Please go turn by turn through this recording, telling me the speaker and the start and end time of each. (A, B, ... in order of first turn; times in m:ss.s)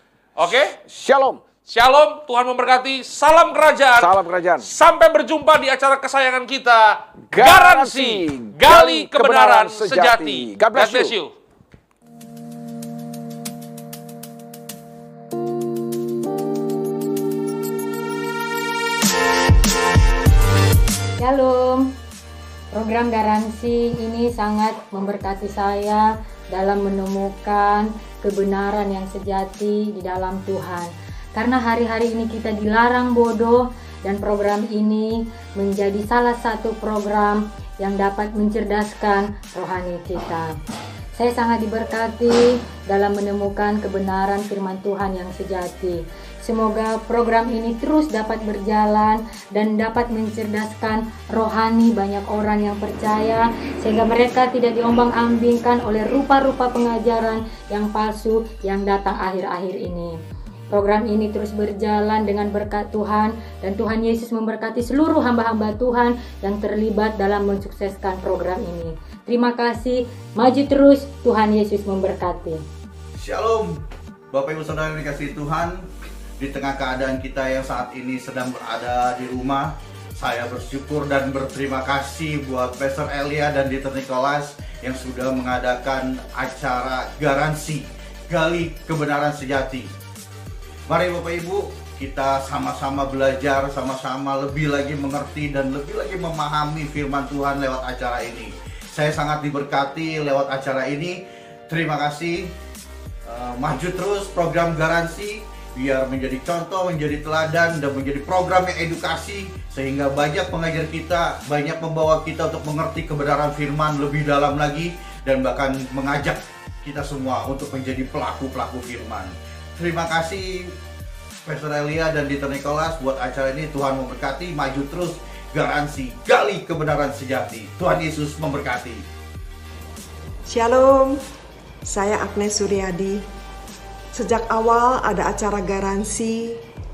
0:00.4-0:00.8 A
0:00.8-0:01.4 B
0:01.7-0:11.3 A
0:04.0-0:04.7 B
0:07.3-0:11.2 B
0:21.2-0:21.9 C
0:22.7-0:40.5 C
0:41.2-1:00.2 C
1:00.7-1:12.6 C
1:13.2-1:13.8 D
1:14.3-1:15.8 D
1:16.4-1:29.9 D
1:30.9-1:42.5 D
1:43.3-2:00.7 D
2:01.4-2:09.0 D
2:10.5-2:11.2 E
2:11.9-2:13.2 E
2:14.1-2:16.6 E